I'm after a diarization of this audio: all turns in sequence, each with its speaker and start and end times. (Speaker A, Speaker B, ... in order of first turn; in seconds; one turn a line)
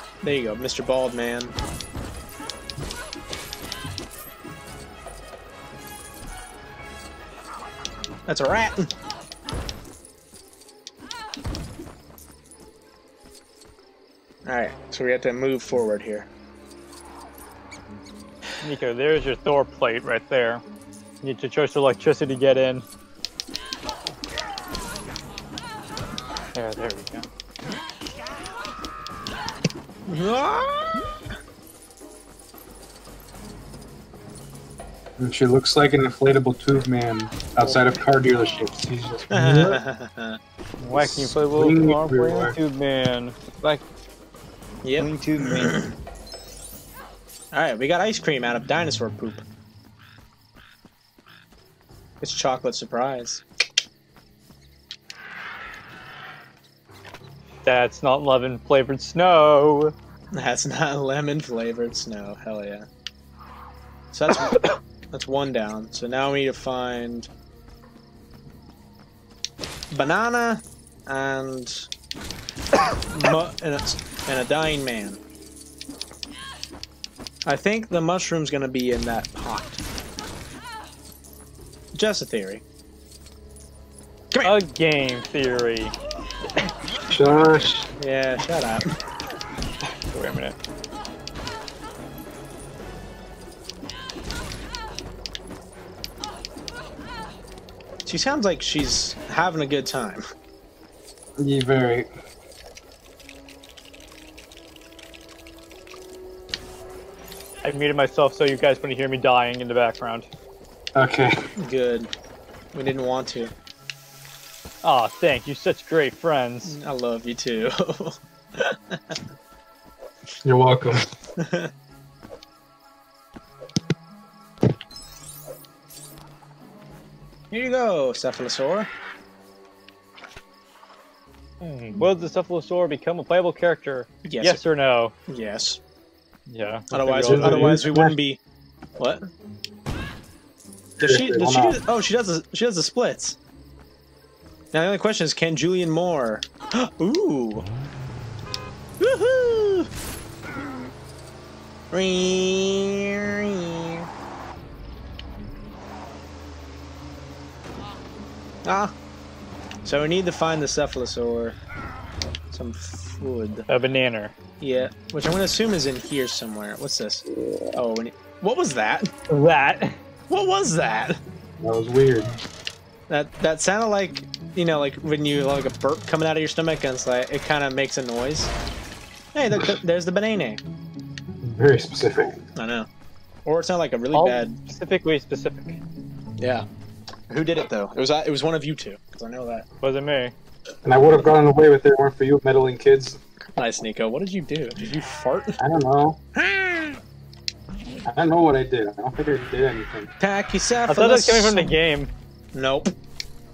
Speaker A: 0.2-1.5
Speaker A: 8.3-8.9
Speaker A: 14.5-16.3
Speaker B: 18.6-20.6
Speaker B: 21.2-22.9
Speaker B: 26.5-27.3
Speaker A: 30.1-31.1
Speaker C: 35.2-39.8
Speaker A: 39.3-40.4
Speaker B: 40.8-43.8
Speaker C: 41.0-42.6
Speaker A: 44.8-45.9
Speaker B: 45.0-45.8
Speaker A: 47.5-49.4
Speaker A: 52.2-53.4
Speaker B: 57.6-59.9
Speaker A: 60.3-62.9
Speaker A: 64.1-67.3
Speaker A: 69.9-71.9
Speaker A: 73.1-75.2
Speaker A: 77.5-79.8
Speaker A: 82.0-82.6
Speaker B: 84.4-85.9
Speaker C: 87.1-87.9
Speaker A: 88.0-88.9
Speaker B: 90.1-90.5
Speaker A: 98.1-100.2
Speaker C: 101.4-102.1
Speaker B: 107.6-110.3
Speaker C: 111.0-111.4
Speaker A: 111.6-112.1
Speaker A: 112.7-113.5
Speaker B: 114.8-116.8
Speaker A: 116.7-119.2
Speaker C: 120.4-121.0
Speaker A: 121.4-121.7
Speaker A: 127.5-128.9
Speaker B: 131.6-135.1
Speaker A: 134.2-134.6
Speaker A: 135.3-135.8
Speaker B: 136.5-137.8
Speaker A: 136.9-138.4
Speaker C: 137.1-138.2
Speaker A: 139.0-139.3
Speaker C: 141.0-141.8
Speaker A: 141.0-143.4
Speaker A: 144.7-147.7
Speaker A: 149.0-149.9
Speaker A: 151.9-154.1
Speaker A: 158.7-158.9
Speaker A: 159.8-161.6
Speaker A: 162.5-163.7
Speaker B: 163.7-164.3
Speaker A: 164.6-167.2
Speaker A: 167.8-169.1
Speaker B: 169.3-170.0
Speaker A: 170.3-171.2
Speaker C: 171.6-172.4
Speaker A: 173.1-178.5
Speaker A: 179.3-180.6
Speaker C: 181.4-182.4
Speaker A: 182.6-182.9
Speaker A: 183.4-184.6
Speaker B: 184.1-185.8
Speaker A: 186.4-186.7
Speaker A: 187.3-189.7
Speaker B: 189.8-190.3
Speaker C: 190.8-193.2
Speaker A: 193.6-195.6
Speaker C: 195.6-196.2
Speaker A: 196.3-197.0
Speaker C: 198.1-200.1
Speaker A: 200.2-201.7
Speaker B: 200.9-202.1
Speaker A: 202.5-202.9